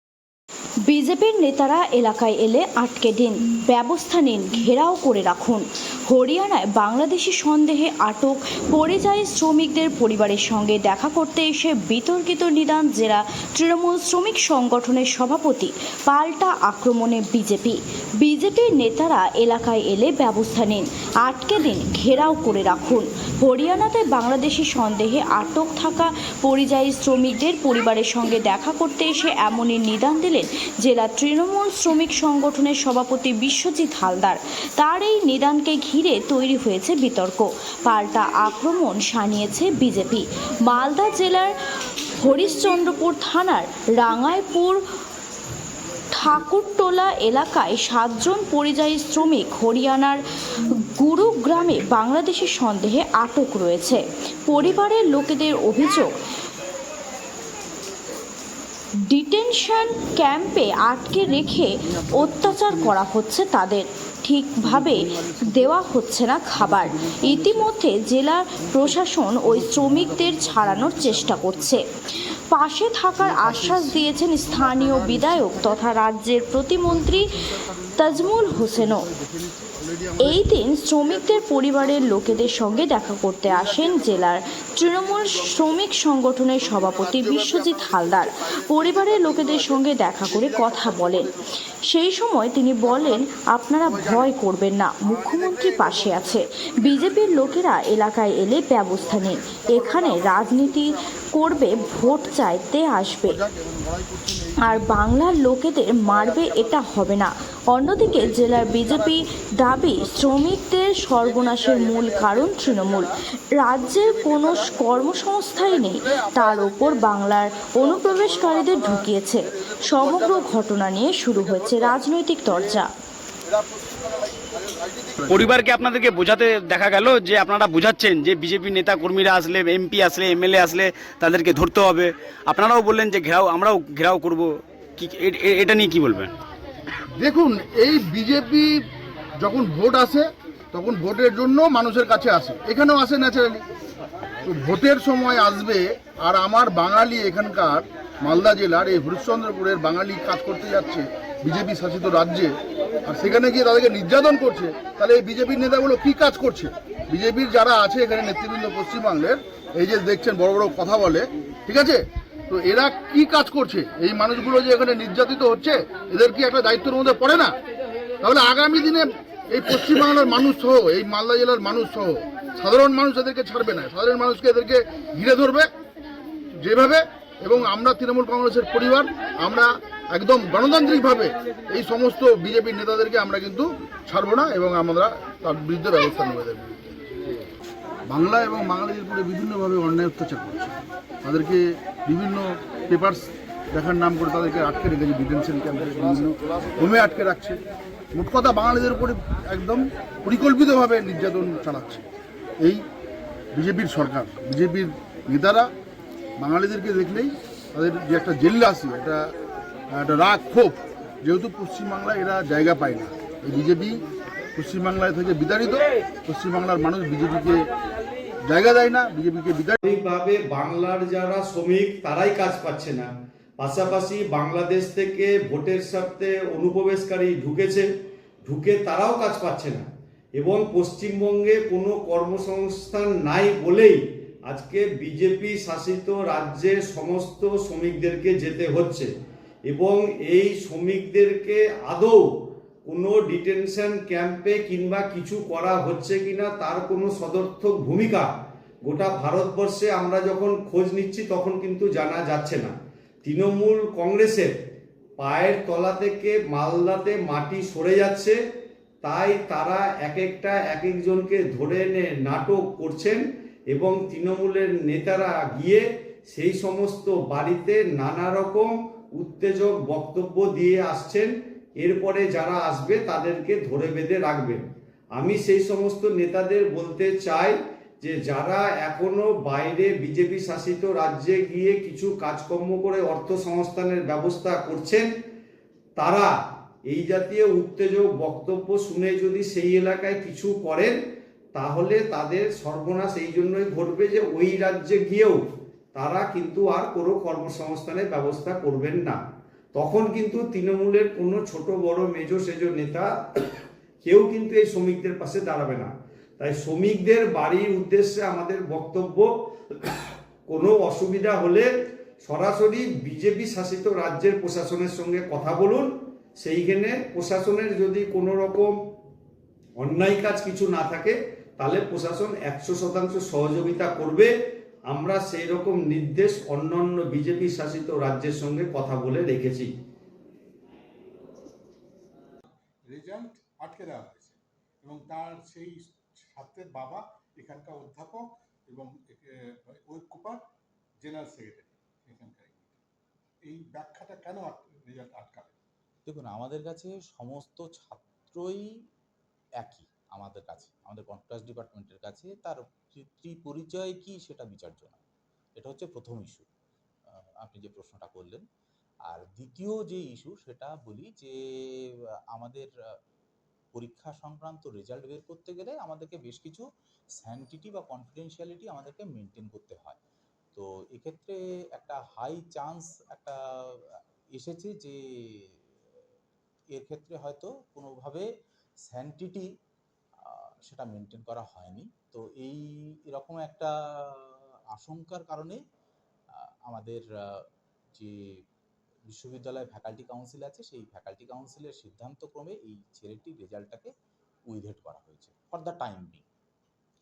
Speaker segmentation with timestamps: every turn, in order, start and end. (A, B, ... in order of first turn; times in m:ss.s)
0:00.8-0:41.5 A
0:42.2-0:44.8 A
0:46.1-0:56.1 A
0:59.1-1:11.8 A
1:01.8-1:03.0 B
1:04.6-1:07.7 B
1:08.6-1:11.8 B
1:12.5-1:19.0 A
1:13.2-1:15.8 B
1:16.9-1:20.5 B
1:20.2-1:31.3 A
1:21.0-1:22.8 B
1:23.4-1:25.7 B
1:26.6-1:31.4 B
1:31.8-1:43.4 A
1:32.8-1:33.2 B
1:33.9-1:34.3 B
1:35.1-1:37.7 B
1:39.2-1:42.6 B
1:43.2-1:44.9 B
1:44.6-2:02.9 A
1:46.1-1:46.7 B
1:48.2-1:50.4 B
1:51.2-1:53.1 B
1:53.8-1:57.1 B
1:57.8-2:00.6 B
2:01.4-2:02.8 B
2:03.4-2:05.4 B
2:05.3-2:16.3 C
2:17.1-2:18.8 B
2:19.4-2:23.6 B
2:24.4-2:47.6 B
2:48.2-2:55.7 B
2:56.6-3:07.1 B
3:08.1-3:17.6 B
3:18.1-3:22.1 B
3:22.6-3:22.8 B
3:23.5-3:25.7 B
3:26.4-3:29.3 B
3:29.9-3:34.0 B
3:34.6-3:37.7 B
3:38.4-3:39.8 B
3:39.8-3:43.1 D
3:43.6-3:47.9 D
3:48.4-3:49.8 D
3:50.4-3:59.1 D
3:59.7-4:02.2 D
4:02.8-4:08.3 D
4:08.8-4:14.5 D
4:15.2-4:18.4 D
4:19.0-4:34.6 D
4:35.2-4:45.1 D
4:46.0-4:46.3 D
4:46.9-4:51.0 D
4:51.5-4:55.4 D
4:55.9-4:59.2 D
4:59.7-5:03.1 D
5:04.0-5:09.3 D
5:10.5-5:11.7 D
5:12.2-5:15.9 D
5:16.4-5:18.7 D
5:19.8-5:24.3 D
5:24.9-5:29.7 D
5:32.8-5:40.4 E
5:41.0-5:42.7 E
5:43.4-5:45.6 E
5:46.0-5:48.7 F
5:49.6-5:55.0 F
5:55.5-5:56.4 F
5:57.1-5:58.4 F
5:59.1-6:01.3 F
6:02.3-6:02.7 F
6:03.7-6:06.6 F
6:07.2-6:10.0 F
6:10.5-6:15.6 F
6:16.7-6:18.2 F
6:18.9-6:19.5 F
6:20.2-6:25.6 F
6:26.7-6:27.4 F
6:29.1-6:33.9 F
6:34.5-6:36.2 F